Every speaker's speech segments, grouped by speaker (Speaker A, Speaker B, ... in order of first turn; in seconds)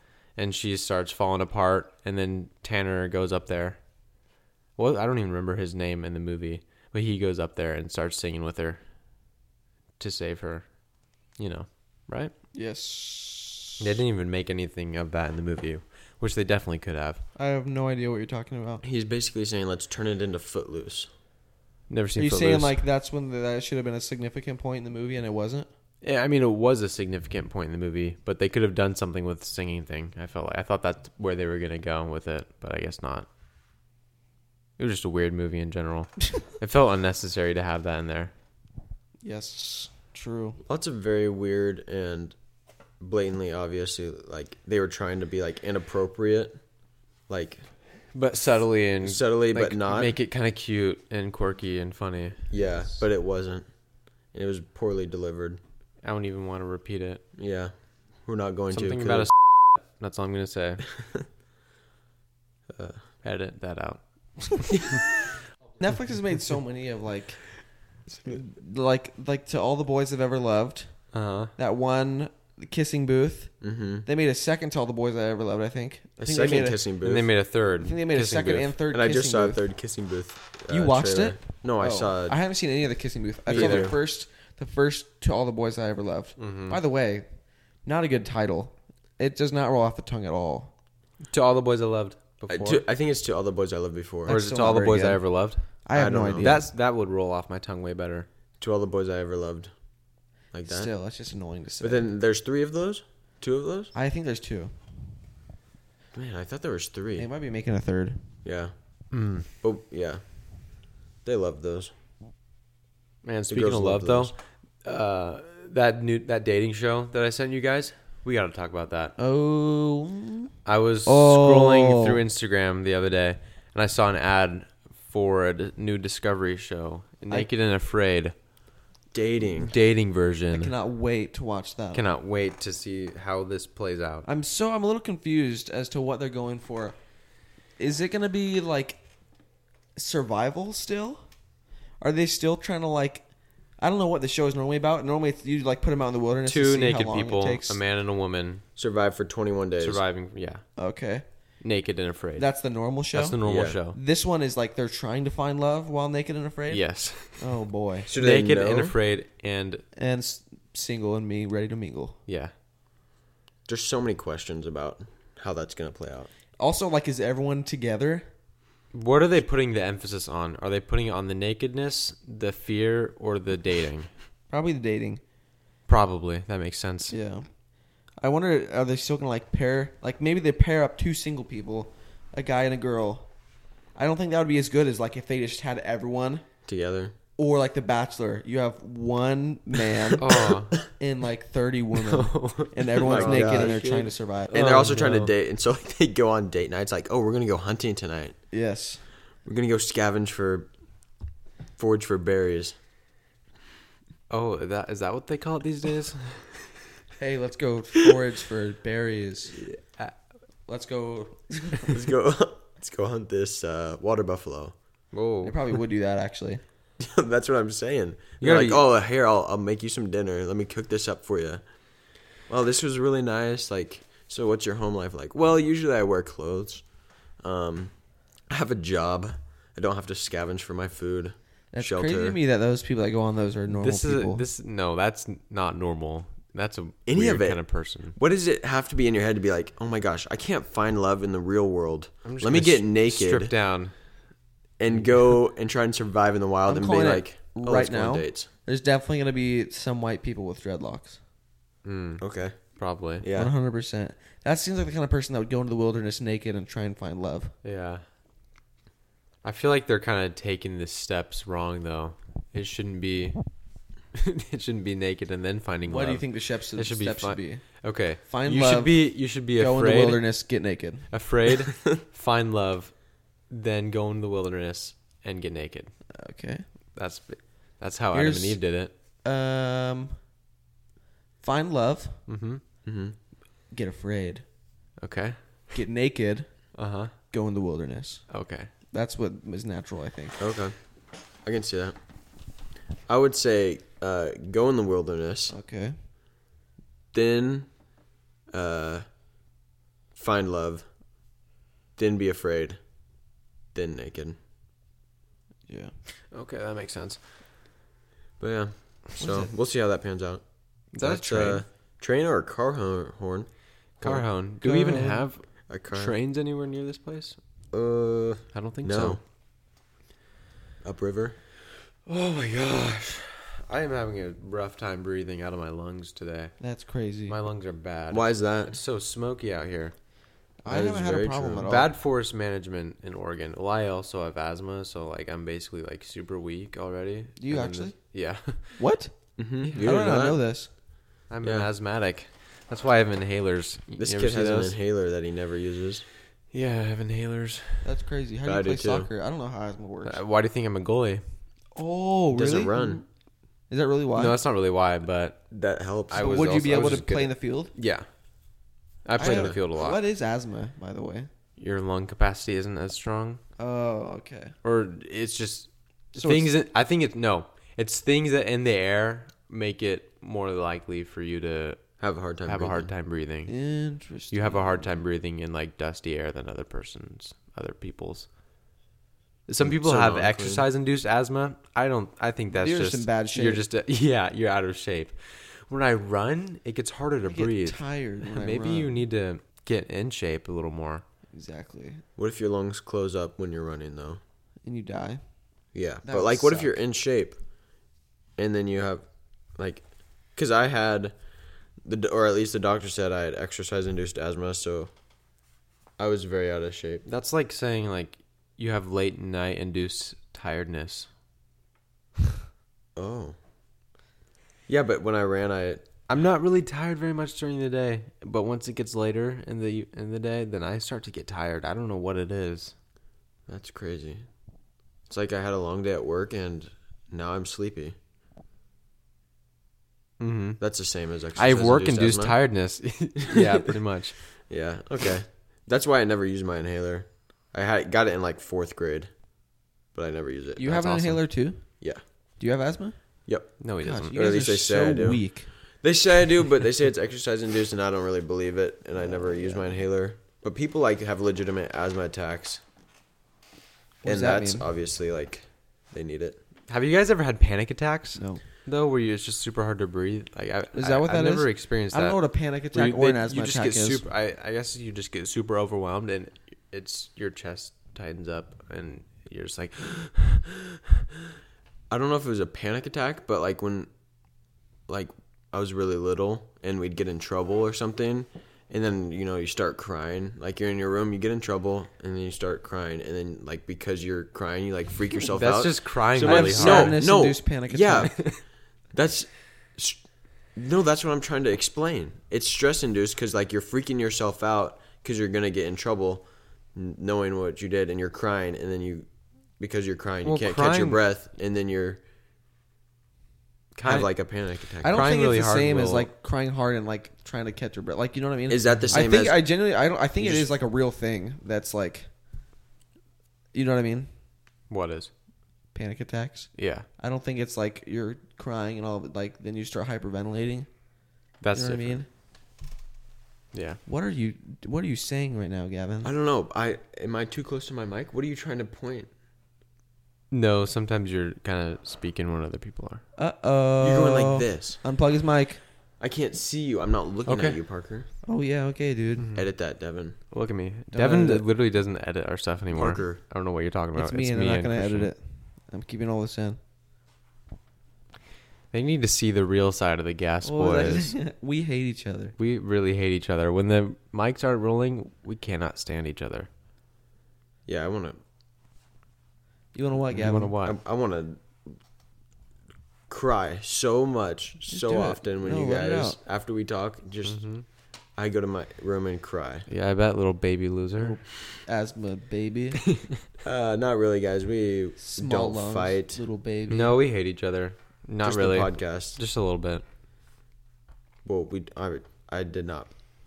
Speaker A: 0.3-3.8, 4.8-8.8, 10.0-10.7, 11.4-12.3, 13.8-17.2, 21.9-22.8, 26.0-33.2, 34.8-38.3, 48.1-52.8, 56.0-57.2, 58.7-61.0, 63.2-65.0, 71.1-71.5, 77.0-78.8, 83.5-83.9, 86.4-86.8, 91.3-92.8, 94.3-95.7, 96.4-98.3, 109.1-109.5, 113.2-119.1, 120.6-128.3, 129.6-130.7, 131.9-134.3, 146.4-148.6, 149.8-150.6, 151.6-152.5, 153.1-154.0, 156.7-157.5, 158.1-159.8, 162.3-162.5, 168.9-174.1, 175.9-177.1, 190.2-190.8, 192.0-195.3, 204.3-206.7, 209.6-210.1, 215.1-215.7, 218.4-218.8, 233.7-238.2, 242.2-243.9, 251.8-252.2, 252.8-253.2, 257.6-258.0, 259.4-263.4, 264.1-270.2, 271.1-272.9, 273.5-275.9, 276.9-278.9, 282.3-282.6, 285.0-285.7, 286.7-287.1, 288.3-288.7, 306.3-307.2, 310.9-311.6, 314.0-317.4, 318.5-319.2, 322.1-326.6, 327.3-329.9, 331.6-338.8, 341.3-344.7, 346.5-347.9, 350.0-351.2, 354.1-355.5, 356.1-358.1, 359.0-360.0, 361.6-363.4, 364.6-373.5, 374.3-378.3, 379.5-391.0, 407.1-411.1, 416.1-422.7, 430.2-430.6, 431.3-434.2, 443.6-444.2, 456.7-462.2, 462.7-470.8, 485.3-487.0, 488.1-488.4, 500.2-501.0, 503.7-504.1, 504.7-506.1, 508.7-509.0, 514.7-515.1, 516.5-516.9, 521.4-522.0, 523.5-523.8, 530.3-533.0, 537.3-537.6, 539.2-539.5, 540.3-545.1, 548.7-551.1, 552.4-556.5, 560.1-560.8, 567.2-567.6, 569.7-571.2, 576.7-579.8
Speaker B: 12.5-13.8, 17.4-18.8, 22.2-25.7, 39.2-40.6, 65.8-67.5, 68.2-70.9, 71.6-73.5, 74.0-76.8, 77.8-79.6, 80.7-87.3, 87.8-90.7, 94.3-95.2, 95.8-96.6, 100.7-102.1, 103.9-104.7, 107.2-108.2, 119.2-120.5, 121.0-122.2, 130.5-132.0, 134.2-137.0, 137.8-139.0, 139.9-141.2, 142.0-143.2, 143.8-147.8, 150.8-151.2, 152.4-158.1, 159.9-162.2, 166.6-168.2, 174.5-175.2, 177.1-177.5, 178.2-183.3, 183.9-186.4, 187.4-194.5, 198.5-199.0, 207.2-209.6, 210.7-211.9, 215.4-216.6, 231.7-234.4, 246.7-251.2, 253.3-257.5, 265.9-271.1, 276.1-276.6, 278.1-278.6, 279.2-280.1, 281.4-282.2, 283.7-284.4, 285.7-286.6, 287.3-288.2, 288.9-290.4, 295.5-295.9, 309.2-309.5, 314.6-315.2, 326.6-327.4, 330.6-331.9, 337.4-338.0, 338.7-339.1, 339.8-340.7, 347.8-350.2, 351.8-353.0, 353.7-354.4, 356.1-357.7, 359.2-361.3, 363.6-364.5, 366.1-366.5, 373.5-374.9, 382.5-383.6, 387.2-388.9, 391.3-392.0, 394.6-395.2, 396.0-396.8, 440.6-441.7, 442.4-443.0, 443.8-445.5, 449.0-449.7, 454.0-454.7, 458.2-458.4, 460.7-464.0, 486.2-488.1, 504.8-512.1, 513.5-514.1, 515.7-520.7, 521.5-522.0, 523.9-526.1, 533.2-535.6, 538.2-539.3, 540.9-541.4, 543.9-546.6, 550.4-552.4, 559.7-560.5, 564.7-566.2, 571.0-572.9, 575.0-577.0
Speaker C: 18.8-21.1, 40.6-42.4, 43.0-46.6, 47.3-47.6, 49.0-50.2, 52.5-53.6, 54.3-55.6, 57.4-59.3, 62.7-63.0, 73.6-74.0, 76.2-77.3, 78.9-82.4, 83.5-84.0, 92.5-94.4, 95.9-96.6, 98.6-99.7, 100.5-100.9, 101.8-103.9, 106.1-107.3, 108.4-108.7, 109.6-110.2, 111.2-111.9, 113.5-114.3, 129.1-129.7, 148.8-150.0, 153.4-153.8, 158.1-158.9, 163.7-166.3, 186.7-187.1, 193.0-193.9, 194.5-198.3, 199.4-200.7, 201.8-202.8, 211.9-214.7, 217.0-221.6, 222.5-226.8, 227.4-227.9, 228.5-232.4, 237.1-237.6, 238.1-243.5, 244.8-248.5, 252.2-253.5, 282.8-283.1, 290.4-290.8, 291.4-291.9, 293.1-295.5, 297.1-297.7, 298.5-299.0, 300.1-300.9, 301.9-302.8, 303.7-304.4, 308.4-310.4, 311.0-313.5, 314.0-314.3, 315.7-316.1, 317.7-319.2, 320.8-321.4, 328.1-328.8, 330.7-331.7, 339.4-340.4, 341.4-341.7, 344.0-346.0, 348.4-349.1, 352.3-353.0, 355.5-357.1, 359.2-359.6, 372.0-372.9, 379.6-380.6, 392.2-394.2, 395.7-397.4, 398.4-399.0, 399.6-399.8, 400.4-401.1, 401.8-404.9, 406.0-407.1, 412.9-413.4, 414.7-415.9, 423.5-424.2, 425.1-427.9, 430.6-432.4, 433.3-433.7, 434.4-439.1, 439.9-441.2, 443.2-443.6, 444.1-452.6, 454.0-456.4, 471.9-473.9, 474.9-490.0, 490.5-499.1, 499.6-502.0, 503.8-505.0, 508.5-509.5, 510.2-510.5, 526.0-529.1, 533.8-534.8, 536.0-538.1, 539.3-540.2, 542.7-543.2, 557.6-558.2, 560.6-561.7, 563.1-567.5, 568.1-569.6, 573.4-576.2, 578.2-579.2, 581.2-582.9